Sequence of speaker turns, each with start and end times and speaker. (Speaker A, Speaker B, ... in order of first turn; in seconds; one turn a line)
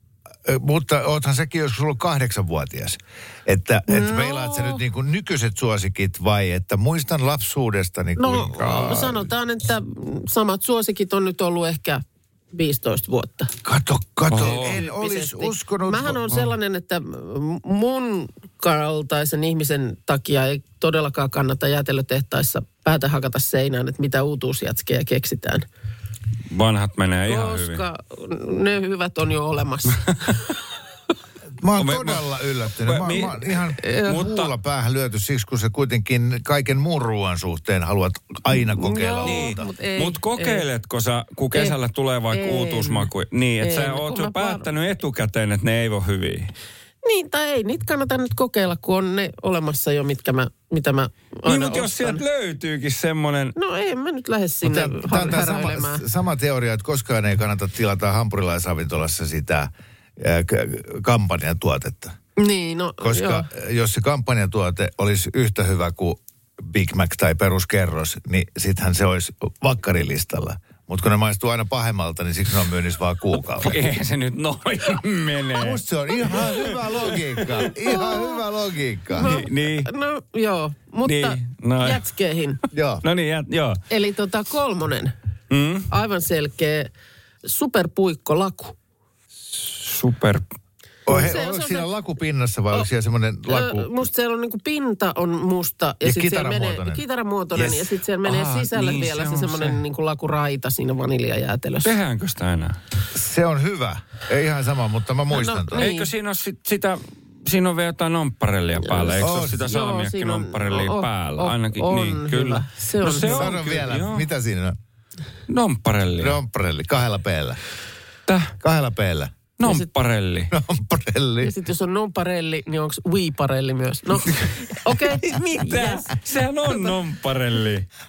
Speaker A: 0.4-9.3
Speaker B: 3.9-4.8
Speaker B: 8.2-13.5
Speaker A: 13.6-16.5
Speaker C: 14.3-14.8
Speaker B: 14.4-25.6
Speaker C: 26.5-27.8
Speaker B: 27.2-30.3
Speaker A: 31.6-39.6
Speaker C: 31.7-32.3
Speaker C: 32.8-34.4
Speaker B: 33.8-34.2
Speaker B: 38.5-40.6
Speaker C: 39.2-46.5
Speaker B: 42.3-43.1
Speaker B: 43.6-44.6
Speaker B: 47.0-52.2
Speaker C: 51.5-53.5
Speaker B: 53.5-56.0
Speaker A: 54.6-62.1
Speaker B: 62.4-63.5
Speaker A: 63.0-73.8
Speaker C: 73.6-76.7
Speaker A: 75.6-79.4
Speaker B: 77.9-78.3
Speaker B: 79.1-82.6
Speaker C: 79.2-79.9
Speaker C: 81.0-82.0
Speaker A: 82.7-83.0
Speaker C: 83.0-83.8
Speaker B: 83.9-85.1
Speaker C: 85.5-85.9
Speaker B: 85.9-86.9
Speaker B: 87.4-88.8
Speaker C: 89.5-90.4
Speaker A: 91.1-94.1
Speaker B: 91.1-91.9
Speaker B: 93.5-102.0
Speaker A: 96.0-97.0
Speaker A: 97.5-97.9
Speaker C: 98.2-99.8
Speaker C: 101.8-102.8
Speaker A: 103.1-105.9
Speaker B: 105.3-106.1
Speaker C: 105.8-114.3
Speaker B: 108.8-113.5
Speaker A: 109.2-109.7
Speaker A: 113.2-114.8
Speaker C: 115.5-116.4
Speaker A: 116.2-117.6
Speaker C: 118.3-118.5
Speaker A: 118.6-119.4
Speaker C: 119.6-120.5
Speaker A: 120.5-121.5
Speaker B: 121.4-126.9
Speaker C: 125.2-127.9